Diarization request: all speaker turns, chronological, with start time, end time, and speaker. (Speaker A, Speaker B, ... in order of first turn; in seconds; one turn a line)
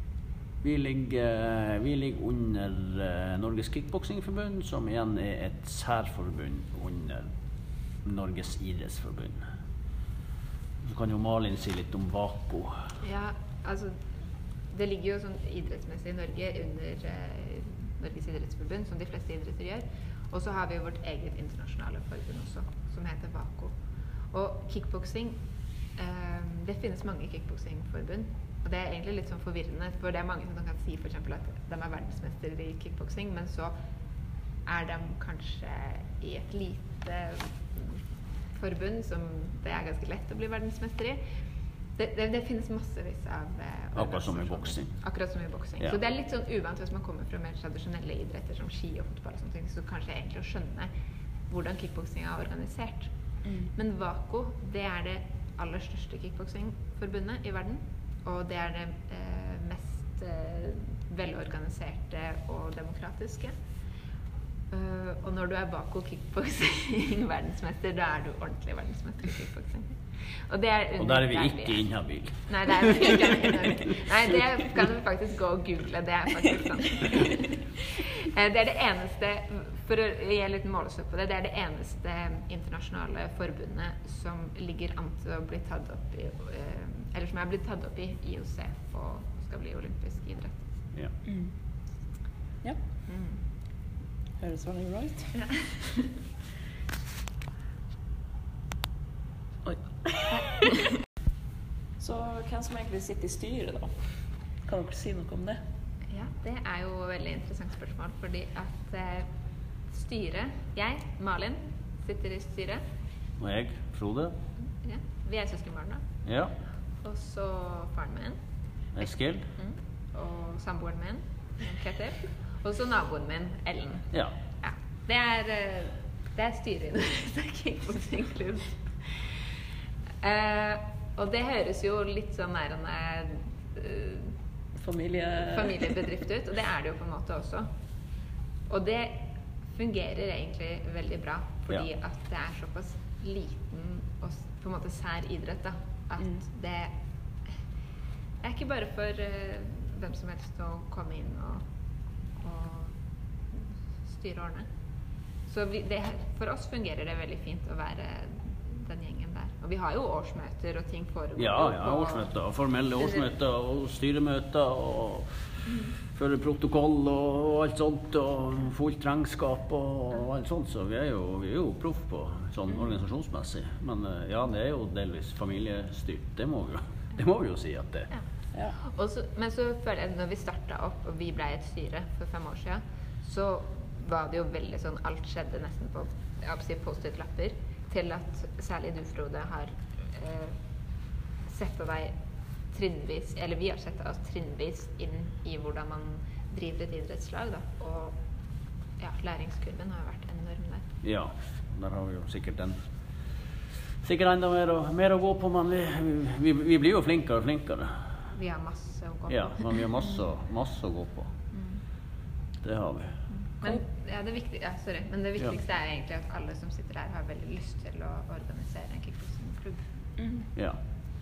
Speaker A: 0.6-7.3
Speaker A: 8.0-9.4
Speaker A: 10.8-12.8
Speaker B: 13.0-14.0
Speaker B: 14.7-33.8
Speaker B: 34.4-50.9
Speaker A: 44.0-46.0
Speaker B: 51.5-63.6
Speaker B: 64.7-77.7
Speaker A: 71.0-73.2
Speaker B: 78.3-90.6
Speaker C: 91.2-91.6
Speaker B: 93.1-93.4
Speaker C: 94.4-95.5
Speaker B: 95.5-96.1
Speaker C: 99.6-100.6
Speaker C: 102.0-105.6
Speaker B: 106.1-109.3
Speaker B: 109.8-112.8
Speaker A: 113.4-114.4
Speaker B: 114.6-116.0
Speaker A: 116.2-116.6
Speaker B: 117.0-118.4
Speaker B: 118.9-129.4
Speaker A: 118.9-119.5
Speaker B: 130.2-134.3
Speaker C: 134.8-136.1
Speaker B: 135.4-137.7
Speaker B: 138.7-147.6
Speaker B: 148.4-151.6
Speaker B: 152.4-153.0
Speaker B: 153.5-154.7
Speaker B: 155.4-162.4
Speaker A: 161.4-165.3
Speaker B: 163.0-163.3
Speaker B: 165.6-165.9
Speaker A: 166.1-178.1
Speaker C: 172.7-173.0
Speaker B: 178.1-190.6
Speaker B: 191.4-198.2
Speaker B: 199.0-200.8
Speaker A: 201.0-202.8
Speaker A: 204.0-208.0
Speaker B: 208.3-209.9
Speaker A: 209.3-211.3
Speaker B: 211.5-211.8
Speaker A: 212.6-213.3
Speaker B: 213.3-219.8
Speaker C: 220.2-220.4
Speaker A: 220.6-220.8